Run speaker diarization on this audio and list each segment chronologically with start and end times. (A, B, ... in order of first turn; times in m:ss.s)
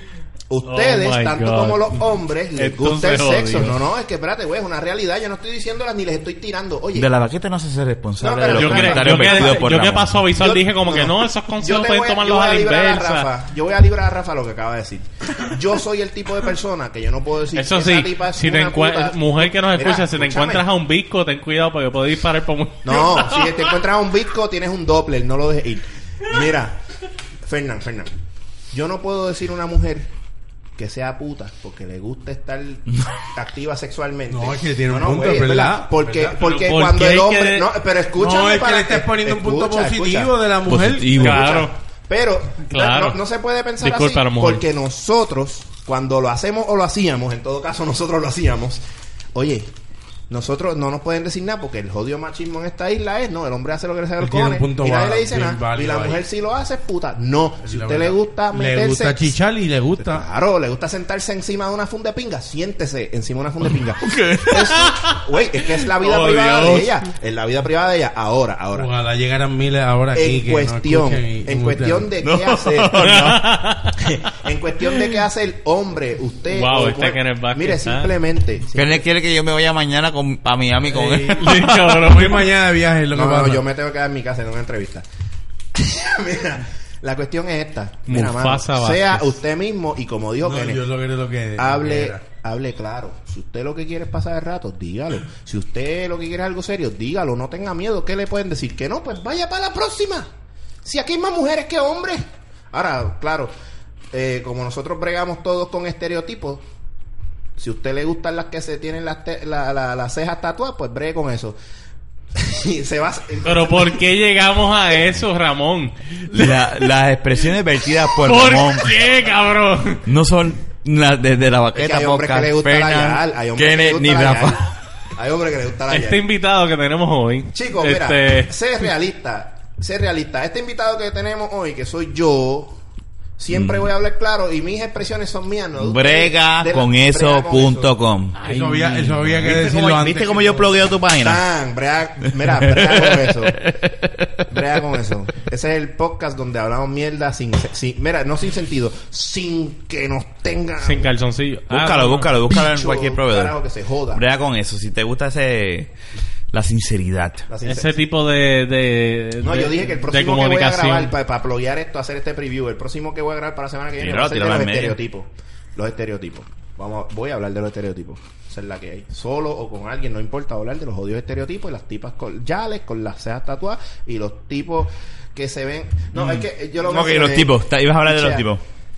0:00.5-0:07.1 A
0:00.6-0:02.0 B
0:02.6-0:03.8 B
0:06.9-0:10.2 C
0:08.2-0:09.6 A
0:08.5-0:13.3 B
0:10.3-0:20.6 A
0:17.5-0:23.7 B
0:22.8-0:26.8 A
0:27.4-0:28.1 A
0:28.7-0:30.1 A
0:30.8-0:40.3 A
0:34.3-0:36.4 D
0:36.4-0:37.7 B
0:38.2-0:41.4 D
0:40.6-0:41.6 C
0:41.1-0:48.8 A
0:41.2-0:41.7 B
0:42.7-0:43.2 B
0:43.8-0:44.6 B
0:49.3-0:49.7 A
0:50.3-0:59.3 A
0:54.2-0:56.2 D
0:57.6-1:00.2 D
1:00.0-1:08.9 A
1:04.0-1:05.0 C
1:05.9-1:06.9 B
1:08.7-1:12.1 D
1:10.1-1:13.4 A
1:12.2-1:13.4 C
1:12.9-1:14.0 B
1:14.0-1:19.0 A
1:16.5-1:18.1 B
1:18.7-1:21.6 C
1:20.9-1:23.6 D
1:21.4-1:22.5 B
1:23.1-1:25.0 A
1:25.7-1:30.8 A
1:28.1-1:29.4 B
1:30.4-1:32.2 D
1:31.6-1:40.3 A
1:40.8-1:43.5 A
1:44.1-1:46.6 A
1:47.6-1:51.6 A
1:52.3-1:54.0 A
1:53.4-1:56.5 B
1:56.3-1:58.9 C
1:58.2-2:00.0 B
2:00.0-2:04.7 C
2:01.7-2:06.2 A
2:05.9-2:08.5 B
2:07.5-2:12.8 A
2:13.4-2:17.9 A
2:13.5-2:13.9 C
2:15.8-2:21.4 C
2:18.4-2:20.7 D
2:21.2-2:23.7 A
2:22.4-2:24.3 C
2:24.5-2:31.1 A
2:30.8-2:32.3 B
2:31.7-2:33.6 C
2:32.5-2:34.2 A
2:34.1-2:35.9 C
2:36.5-2:37.4 C
2:37.5-2:37.9 A
2:37.6-2:41.1 B
2:39.4-2:58.4 A
2:44.0-2:45.0 C
2:56.1-2:58.6 C